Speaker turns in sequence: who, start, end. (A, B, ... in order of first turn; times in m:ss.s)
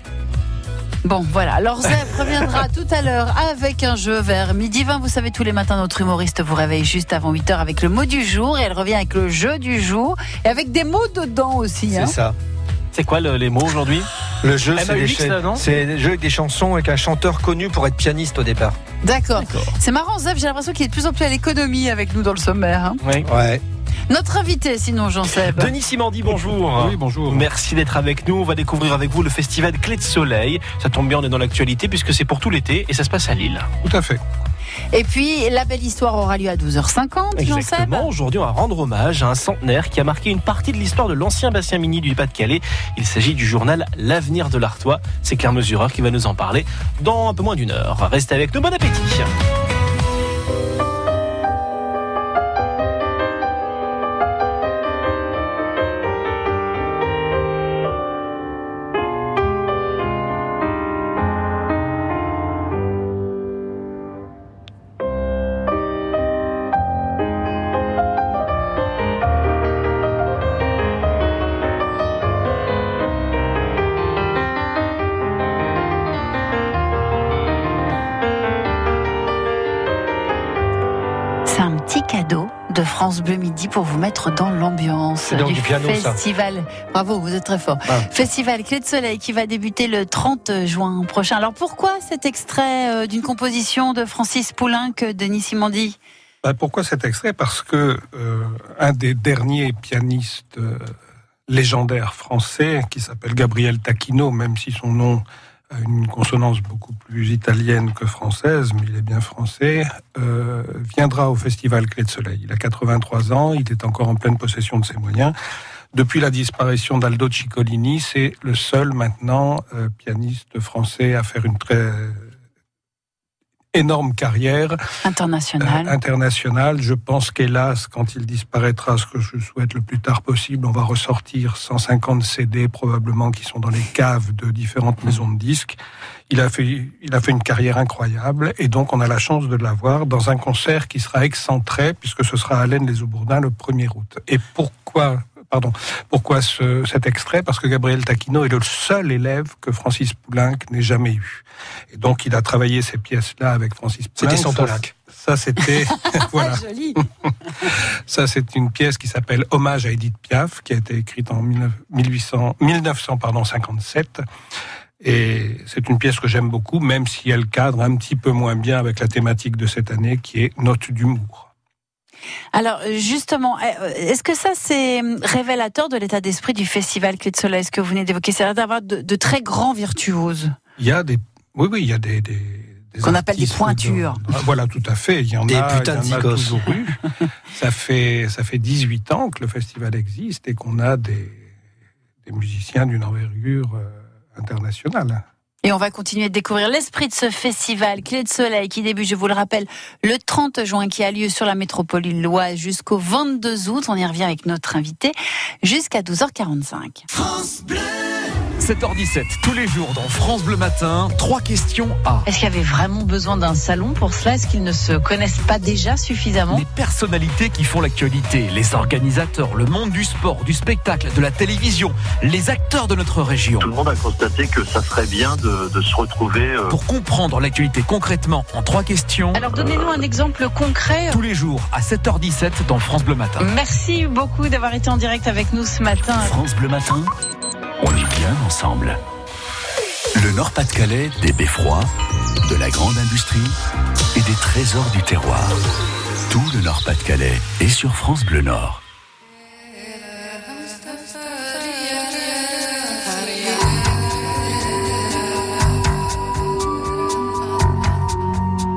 0:01.0-0:12.1 A
0:11.9-0:12.4 B
0:12.9-0:14.1 C
0:14.4-0:18.8 B
0:14.7-0:15.6 C
0:19.0-0:23.0 A
0:19.4-0:19.7 C
0:23.0-0:23.3 C
0:23.2-0:23.6 B
0:24.1-0:25.7 A
0:25.3-0:33.7 C
0:26.3-0:27.5 D
0:33.8-0:34.2 D
0:34.9-0:38.1 A
0:37.3-0:49.3 C
1:21.4-1:36.0 A
1:25.2-1:26.2 B
1:36.4-1:40.9 D
1:41.5-1:55.3 D
1:55.9-2:02.3 D
2:03.7-2:04.8 D
2:05.0-2:05.9 A
2:05.6-2:15.8 D
2:16.3-2:37.0 D
2:34.2-2:34.9 B
2:36.2-2:37.0 A
2:37.6-2:44.2 D
2:45.0-2:51.5 D
2:52.5-3:00.6 A
3:00.8-3:07.0 D
3:03.0-3:04.3 A
3:05.5-3:06.6 B
3:07.5-3:11.5 D
3:12.2-3:15.2 D
3:15.6-3:27.0 A
3:28.6-3:32.2 E
3:32.2-3:36.6 F
3:36.5-3:43.7 E
3:43.6-3:46.7 G
3:46.7-3:50.0 E
3:49.4-3:51.2 A
3:51.1-3:53.5 E
3:53.4-3:56.3 A
3:56.2-3:57.1 H
3:57.8-3:59.0 H
4:00.1-4:01.9 H
4:02.4-4:03.6 H
4:04.1-4:05.6 H
4:06.3-4:08.8 H